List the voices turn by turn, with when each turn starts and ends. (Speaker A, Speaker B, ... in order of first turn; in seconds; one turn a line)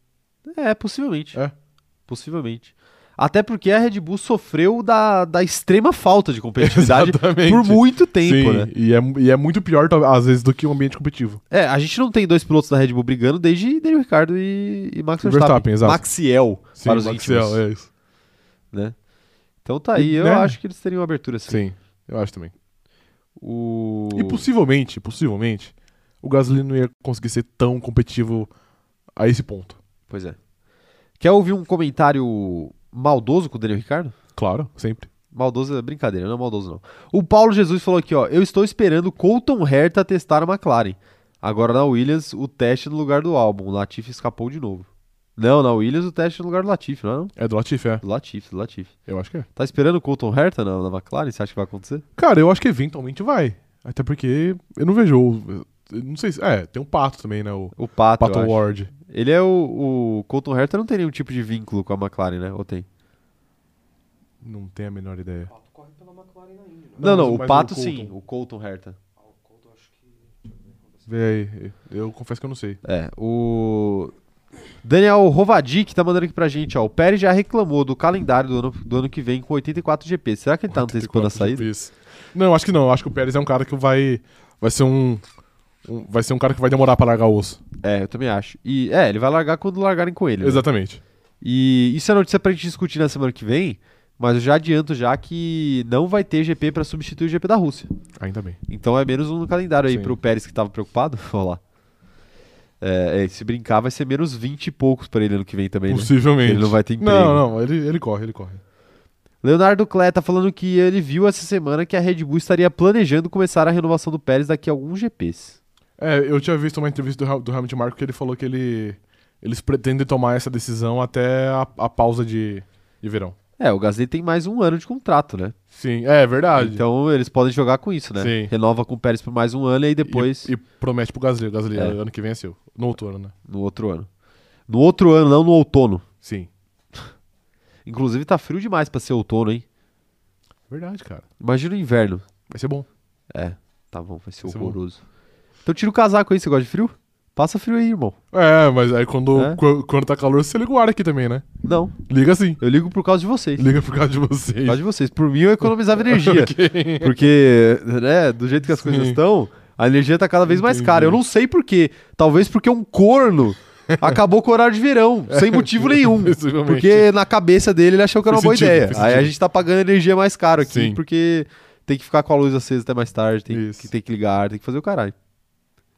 Speaker A: 0.5-1.4
Speaker A: 2.1-8.7
Speaker B: 6.6-11.4
Speaker A: 11.5-17.6
Speaker B: 15.2-16.0
Speaker B: 16.8-17.9
Speaker A: 19.6-21.6
Speaker B: 20.0-20.6
Speaker B: 21.5-22.5
Speaker A: 23.4-24.4
Speaker B: 24.1-28.5
Speaker B: 29.2-29.8
Speaker A: 30.1-30.4
Speaker A: 31.2-34.1
Speaker B: 34.4-35.1
Speaker A: 35.3-47.3
Speaker B: 47.4-48.0
Speaker A: 48.0-48.9
Speaker B: 49.1-49.5
Speaker A: 49.5-52.0
Speaker B: 52.2-58.9
Speaker A: 57.8-62.9
Speaker B: 64.4-65.5
Speaker C: 65.5-67.1
Speaker B: 67.0-68.1
Speaker A: 67.0-69.0
Speaker C: 69.2-71.1
Speaker B: 71.1-72.8
Speaker A: 72.8-74.1
Speaker A: 74.8-81.7
Speaker B: 80.7-85.2
Speaker B: 85.9-87.6
Speaker A: 87.8-90.7
Speaker B: 90.4-91.0
Speaker A: 91.4-97.9
Speaker B: 98.2-98.6
Speaker A: 98.7-101.6
Speaker B: 99.9-100.2
Speaker A: 102.8-107.4
Speaker B: 105.9-108.6
Speaker A: 109.4-115.6
Speaker B: 116.0-123.4
Speaker A: 123.6-125.5
Speaker B: 125.7-126.8
Speaker A: 126.5-130.5
Speaker B: 128.2-128.5
Speaker B: 130.1-133.3
Speaker A: 133.5-134.1
Speaker A: 134.7-136.1
Speaker B: 136.2-136.5
Speaker A: 137.9-139.7
Speaker B: 140.7-141.2
Speaker A: 141.4-142.2
Speaker B: 142.5-142.9
Speaker A: 143.3-145.0
Speaker B: 144.5-144.8
Speaker A: 145.7-148.2
Speaker B: 148.3-151.5
Speaker A: 149.3-149.6
Speaker A: 151.6-152.0
Speaker B: 152.0-152.6
Speaker A: 152.6-153.7
Speaker B: 153.6-154.8
Speaker A: 154.7-175.2
Speaker B: 155.9-157.2
Speaker B: 158.7-159.2
Speaker B: 160.5-161.2
Speaker B: 163.9-164.2
Speaker B: 165.3-167.1
Speaker B: 168.2-169.3
Speaker B: 170.6-171.0
Speaker B: 173.5-173.9